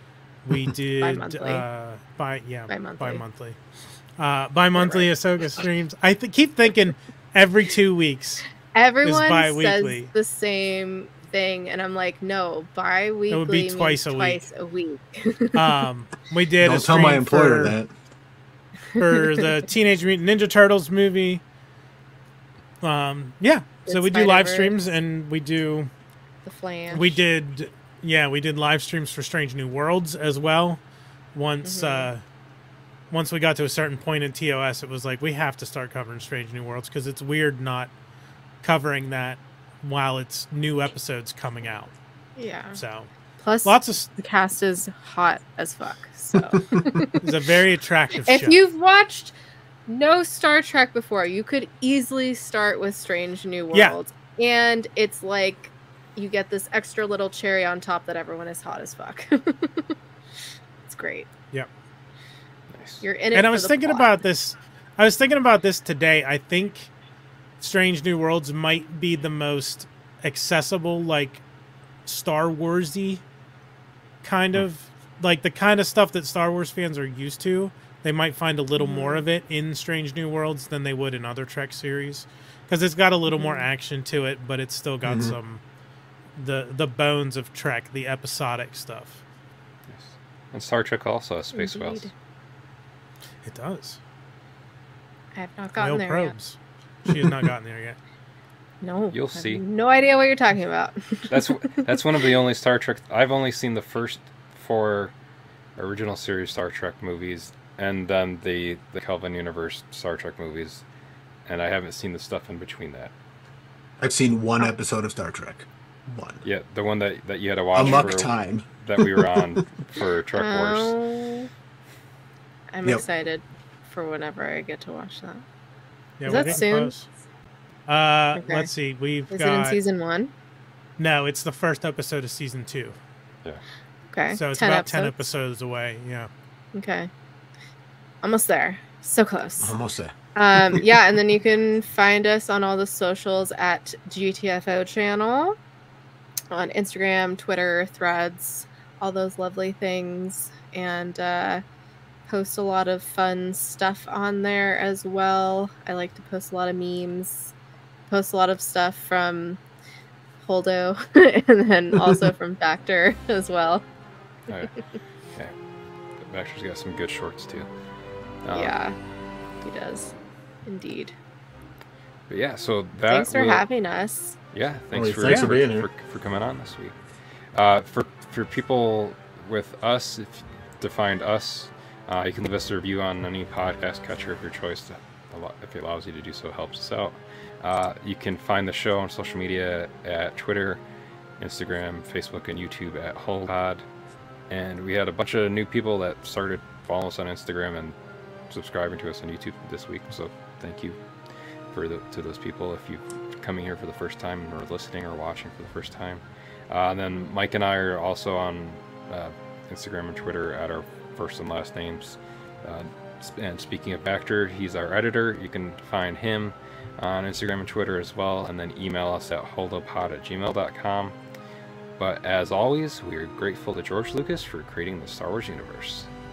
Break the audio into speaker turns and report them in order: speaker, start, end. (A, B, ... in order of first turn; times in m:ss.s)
0:00.4-0:03.6 A
0:01.0-0:01.7 B
0:02.7-0:03.2 B
0:04.2-0:08.4 A
0:04.8-0:05.1 B
0:08.7-0:15.6 B
0:09.0-0:10.1 A
0:13.3-0:14.5 A
0:15.5-0:17.8 A
0:16.6-0:17.9 C
0:19.0-0:21.4 A
0:22.8-0:25.9 A
0:23.9-0:24.8 B
0:26.4-0:27.2 B
0:26.9-0:30.8 A
0:31.4-0:32.2 A
0:31.6-0:32.1 B
0:33.1-0:37.9 A
0:38.6-0:41.9 A
0:42.4-0:42.8 B
0:42.8-0:43.1 A
0:43.4-0:47.2 B
0:43.6-0:44.1 A
0:47.2-0:48.6 A
0:48.3-0:49.4 B
0:49.9-1:00.0 B
1:00.9-1:01.3 B
1:02.7-1:03.0 D
1:03.0-1:04.2 B
1:03.3-1:06.9 A
1:07.6-1:11.4 A
1:12.1-1:13.2 A
1:14.2-1:25.6 A
1:18.8-1:19.2 B
1:23.3-1:23.7 B
1:25.0-1:25.4 C
1:26.4-1:29.2 A
1:29.9-1:32.1 D
1:31.5-1:32.1 B
1:33.4-1:34.0 A
1:35.4-1:36.4 B
1:35.8-1:38.0 A
1:37.1-1:37.5 C
1:38.8-1:41.8 B
1:39.1-1:39.6 D
1:41.3-1:45.1 D
1:45.8-1:50.8 D
1:51.5-1:53.1 D
1:54.0-1:56.4 C
1:56.4-2:01.0 D
1:57.7-1:59.6 C
1:57.8-1:58.1 B
2:00.4-2:01.5 B
2:02.7-2:05.4 B
2:06.2-2:07.1 A
2:06.3-2:06.9 B
2:07.9-2:09.8 A
2:08.4-2:08.7 B
2:09.3-2:10.3 B
2:11.0-2:13.0 A
2:14.1-2:15.3 B
2:14.3-2:16.3 A
2:16.7-2:17.1 B
2:18.2-2:19.8 B
2:19.6-2:20.1 C
2:20.4-2:25.6 B
2:26.5-2:31.6 B
2:32.3-2:37.5 B
2:38.1-2:39.6 B
2:40.4-2:43.8 B
2:42.0-2:42.3 C
2:44.5-2:44.8 D
2:46.2-2:47.7 D
2:48.4-2:48.7 D
2:48.5-2:49.0 B
2:49.6-2:50.2 B
2:50.7-2:51.2 B
2:52.3-2:53.6 D
2:53.1-2:54.4 B
2:54.5-2:57.0 D
2:54.9-2:55.9 C
2:57.5-3:10.8 D
3:11.4-3:13.8 D
3:14.5-3:18.0 D
3:18.5-3:21.0 D
3:21.7-3:41.2 D
3:42.0-3:46.1 D